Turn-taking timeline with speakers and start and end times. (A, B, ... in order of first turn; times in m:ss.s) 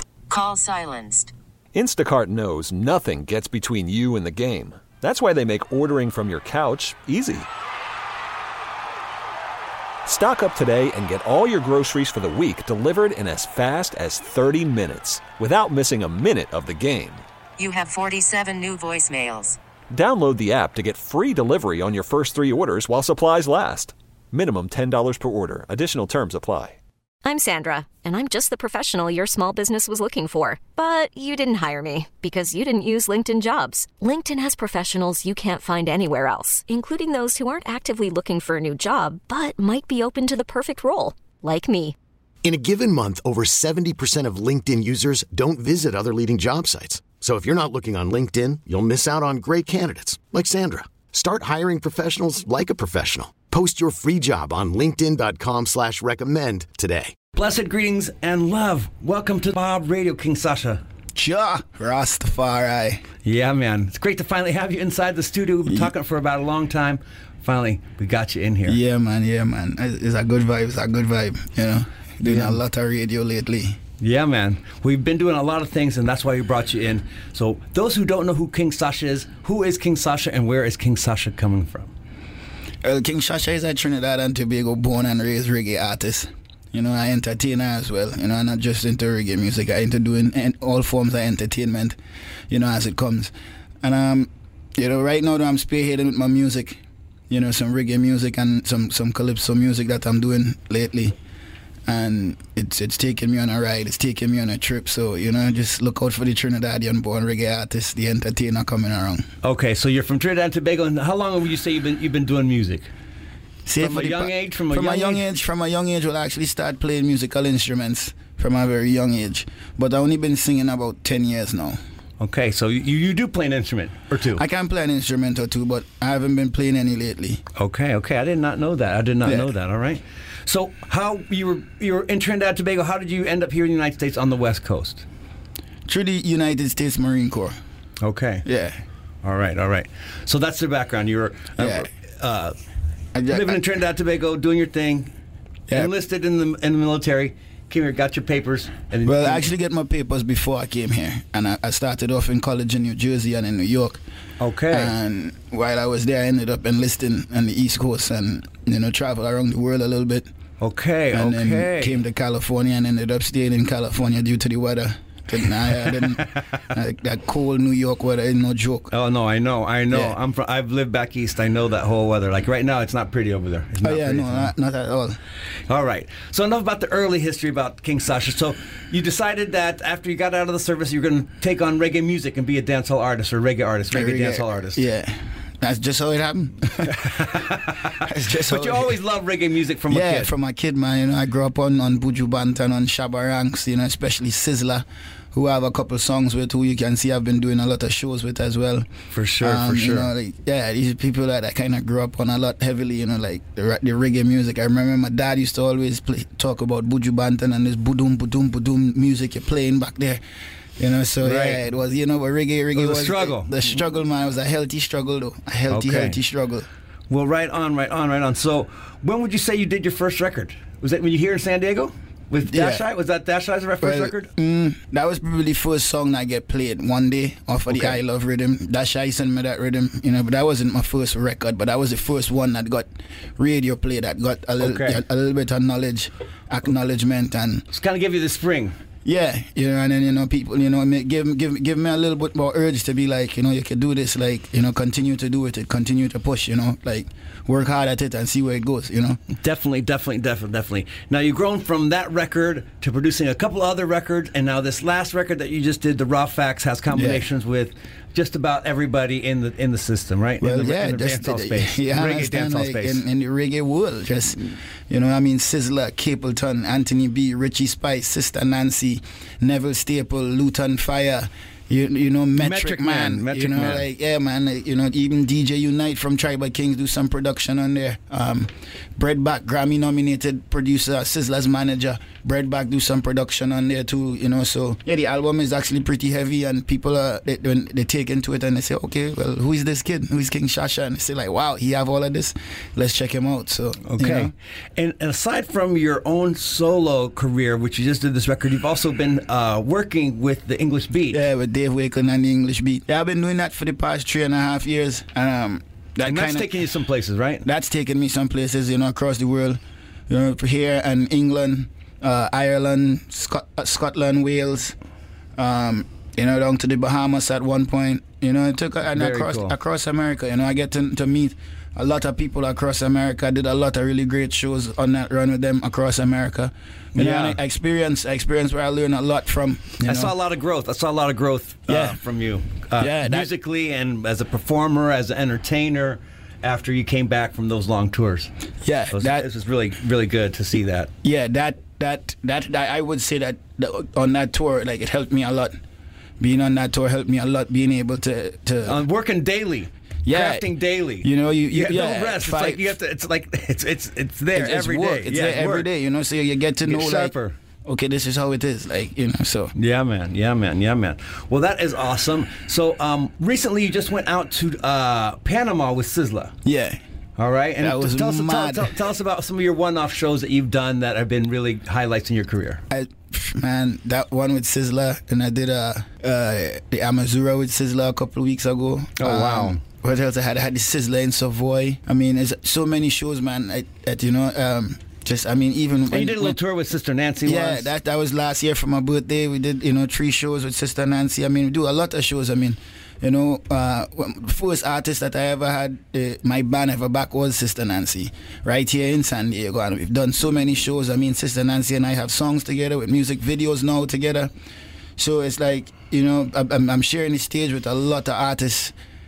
0:00.3-0:01.3 A
0:01.7-0:07.5 B
0:10.0-0:17.2 B
0:17.6-0:19.6 A
0:19.9-0:26.8 B
0:27.2-0:42.0 C
0:42.4-0:57.1 D
0:57.4-1:00.8 E
1:01.2-1:03.0 F
1:03.2-1:08.8 E
1:05.7-1:05.9 F
1:08.6-1:13.8 F
1:12.2-1:12.6 E
1:14.0-1:21.9 E
1:22.8-1:32.0 F
1:32.5-1:41.2 F
1:41.9-1:49.2 F
1:49.4-1:52.9 E
1:53.6-2:01.8 F
1:53.8-1:55.2 E
2:02.2-2:04.4 E
2:04.3-2:07.4 F
2:07.6-2:15.0 E
2:09.2-2:09.5 F
2:15.9-2:17.6 F
2:18.0-2:18.5 E
2:18.4-2:18.8 F
2:19.2-2:22.6 E
2:21.6-2:21.9 F
2:23.1-2:23.6 F
2:23.3-2:25.1 E
2:25.7-2:29.5 E
2:29.0-2:34.0 F
2:34.4-2:34.9 E
2:34.7-2:40.3 F
2:40.6-2:42.0 E
2:41.1-2:48.9 F
2:45.7-2:46.4 E
2:48.9-2:54.5 E
2:49.9-2:50.2 F
2:53.8-2:55.2 F
2:55.7-3:04.8 E
3:03.9-3:07.4 F
3:06.9-3:10.3 E
3:08.0-3:09.0 F
3:09.9-3:18.9 F
3:19.1-3:20.1 E
3:19.4-3:30.2 F
3:30.8-3:36.7 F
3:31.2-3:31.6 E
3:32.7-3:33.5 E
3:35.7-3:36.2 E
3:37.1-3:44.3 E
3:42.5-3:42.8 F
3:43.8-3:57.7 F
3:47.7-3:48.0 E
3:54.6-3:55.0 E
3:57.7-3:58.8 E
3:59.0-4:09.2 F
4:09.4-4:23.0 E
4:16.9-4:17.3 F
4:20.4-4:54.3 F
4:32.4-4:33.9 E
4:53.8-5:01.2 E
5:01.1-5:06.5 F
5:06.0-5:07.5 E
5:07.4-5:14.8 F
5:15.4-5:30.1 F
5:18.9-5:19.6 E
5:27.0-5:27.4 E
5:29.8-5:38.3 E
5:31.7-5:32.0 F
5:32.8-5:33.3 F
5:38.6-5:39.3 F
5:38.9-5:40.9 E
5:41.0-5:45.6 F
5:46.2-5:48.8 F
5:48.6-5:55.7 E
5:50.0-5:52.7 F
5:54.3-5:59.5 F
5:56.6-5:57.4 E
5:59.5-6:06.3 E
6:06.4-6:06.8 F
6:07.2-6:12.6 E
6:07.6-6:08.7 F
6:12.7-6:26.4 F
6:19.0-6:19.6 E
6:25.9-6:27.7 E
6:27.2-6:44.3 F
6:45.0-6:48.7 F